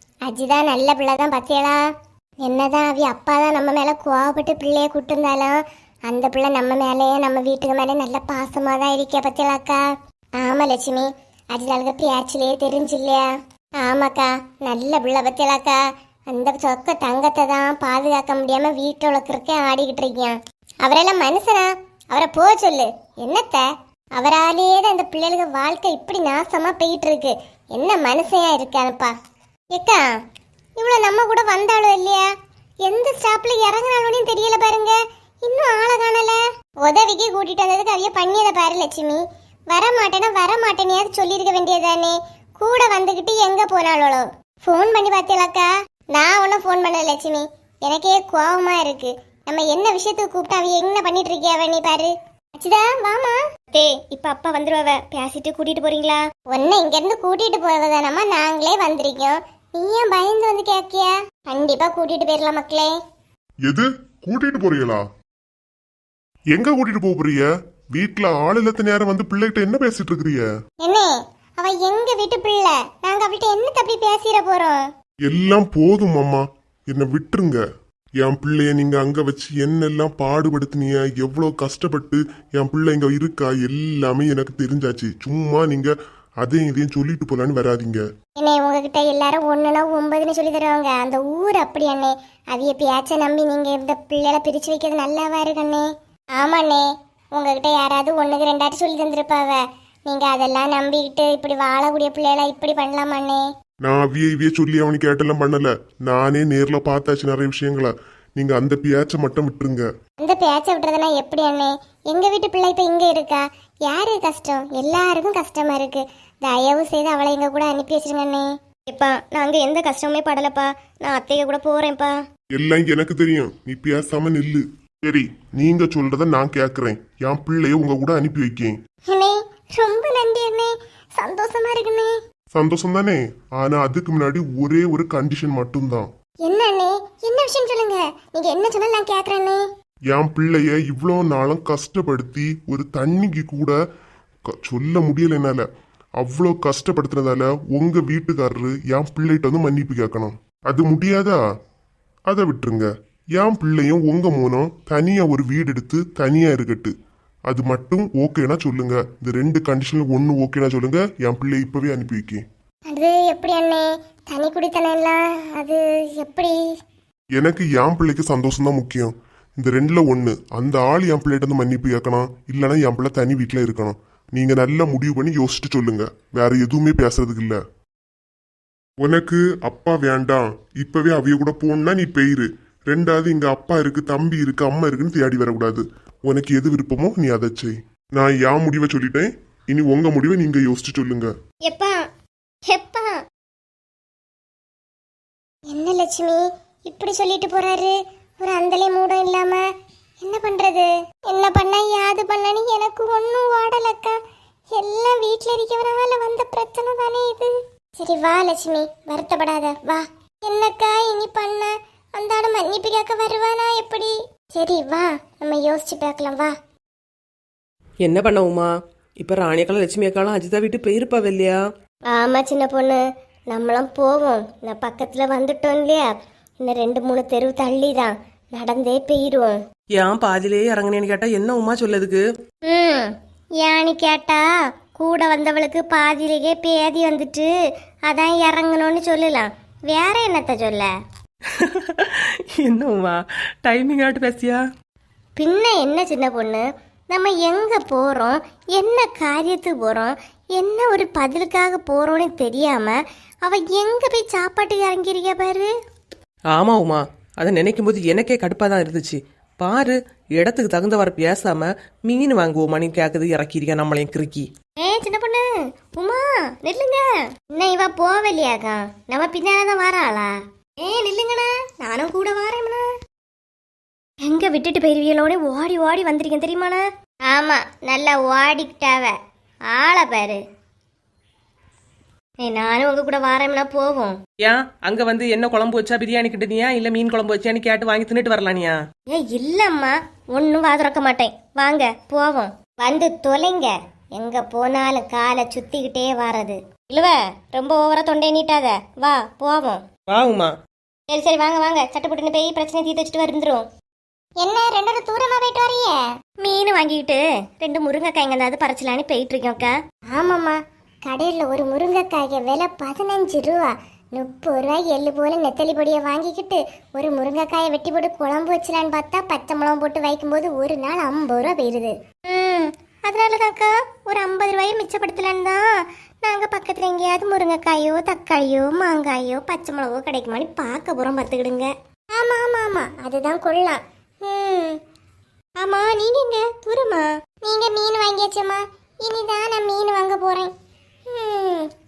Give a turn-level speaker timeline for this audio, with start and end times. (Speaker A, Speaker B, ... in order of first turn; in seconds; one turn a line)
Speaker A: 0.2-1.9
Speaker A: 2.4-9.8
Speaker A: 10.4-15.8
Speaker A: 16.3-29.1
Speaker A: 29.7-30.1
Speaker A: 30.8-32.3
Speaker A: 32.8-63.0
Speaker B: 63.6-65.0
Speaker B: 66.5-70.5
Speaker A: 70.8-74.8
Speaker B: 75.3-77.6
Speaker B: 78.2-88.0
Speaker A: 88.4-103.4
Speaker B: 103.8-109.9
Speaker A: 110.2-122.2
Speaker B: 122.5-128.7
Speaker A: 129.1-132.1
Speaker B: 132.5-136.1
Speaker A: 136.4-139.6
Speaker B: 140.1-143.8
Speaker B: 144.6-145.7
Speaker B: 146.2-151.4
Speaker B: 152.3-156.9
Speaker B: 157.5-162.4
Speaker A: 162.9-166.6
Speaker B: 167.4-177.6
Speaker B: 179.0-191.3
Speaker A: 191.7-192.0
Speaker A: 192.7-193.2
Speaker A: 195.7-199.7
Speaker A: 200.2-204.2
Speaker A: 204.7-216.5
Speaker C: 218.0-221.6
Speaker A: 222.1-229.6
Speaker C: 229.9-232.2
Speaker A: 232.7-237.5
Speaker A: 238.1-240.9
Speaker C: 241.5-244.6
Speaker A: 245.4-255.7
Speaker C: 256.5-264.5
Speaker A: 264.8-272.9
Speaker A: 274.2-279.2
Speaker A: 279.7-280.4
Speaker A: 282.4-284.2
Speaker C: 284.4-288.8
Speaker A: 289.1-299.9
Speaker C: 300.1-300.5
Speaker A: 301.1-303.7
Speaker A: 304.4-334.8
Speaker A: 335.6-340.5
Speaker A: 341.1-341.7